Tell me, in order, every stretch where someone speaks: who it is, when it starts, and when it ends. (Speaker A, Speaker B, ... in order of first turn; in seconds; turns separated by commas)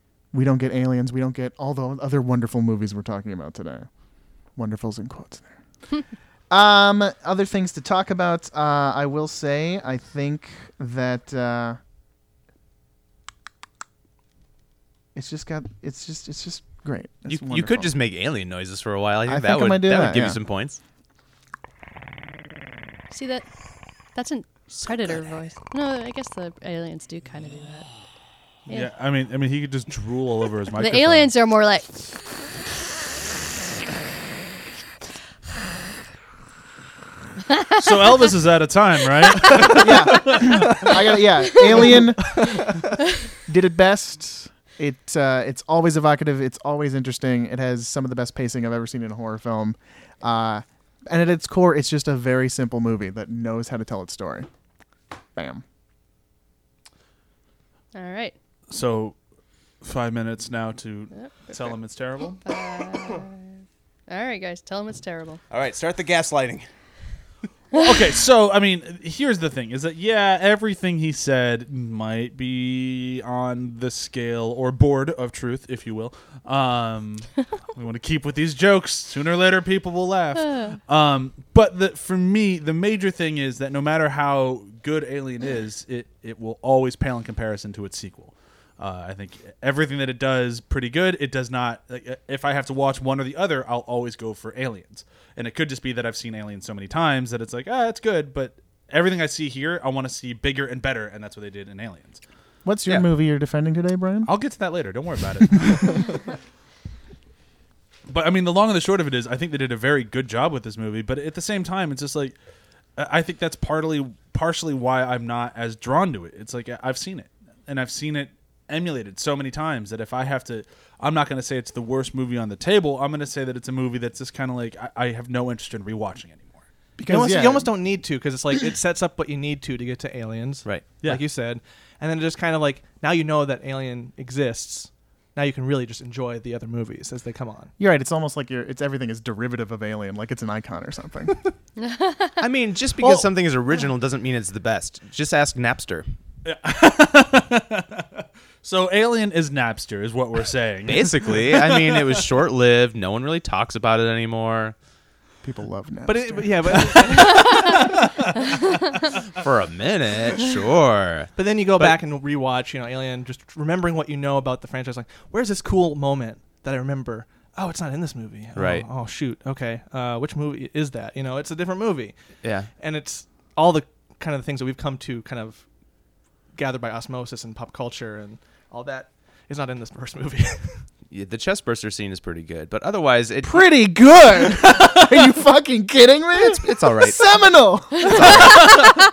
Speaker A: 0.3-3.9, Speaker A: 4.5-5.5, Speaker A: 6.5-11.8, Speaker A: 15.1-17.9, Speaker B: 17.3-20.8, Speaker A: 19.3-20.4, Speaker C: 23.1-23.5, Speaker C: 24.1-27.9, Speaker D: 28.7-31.3, Speaker C: 30.7-31.9, Speaker C: 37.5-37.8, Speaker D: 37.8-40.5, Speaker A: 39.7-42.5, Speaker E: 40.5-41.0, Speaker E: 41.8-42.8, Speaker A: 43.5-54.5, Speaker A: 55.4-55.6, Speaker C: 57.9-58.3, Speaker D: 58.7-59.1, Speaker D: 59.8-62.4, Speaker C: 61.1-61.5, Speaker C: 62.4-63.4, Speaker C: 64.1-65.4, Speaker B: 65.5-66.7, Speaker D: 67.7-102.2, Speaker C: 80.4-80.7, Speaker A: 102.6-104.3, Speaker D: 104.2-106.2, Speaker D: 108.1-112.3, Speaker D: 113.0-126.6, Speaker A: 127.0-127.7, Speaker E: 127.1-137.7, Speaker B: 130.6-130.9, Speaker A: 137.8-141.3, Speaker C: 141.8-142.4, Speaker B: 142.4-146.1, Speaker D: 146.4-152.3, Speaker B: 150.9-154.7, Speaker A: 155.4-156.8, Speaker E: 156.1-157.9, Speaker D: 157.1-157.9, Speaker C: 157.3-157.7, Speaker C: 158.5-158.8, Speaker B: 159.3-162.0, Speaker E: 161.3-172.2, Speaker B: 168.5-168.8, Speaker B: 172.4-172.7, Speaker E: 172.8-175.7, Speaker E: 176.5-180.8, Speaker B: 181.1-183.6, Speaker A: 183.4-188.7, Speaker B: 186.4-187.3, Speaker B: 187.9-189.0, Speaker E: 188.6-189.0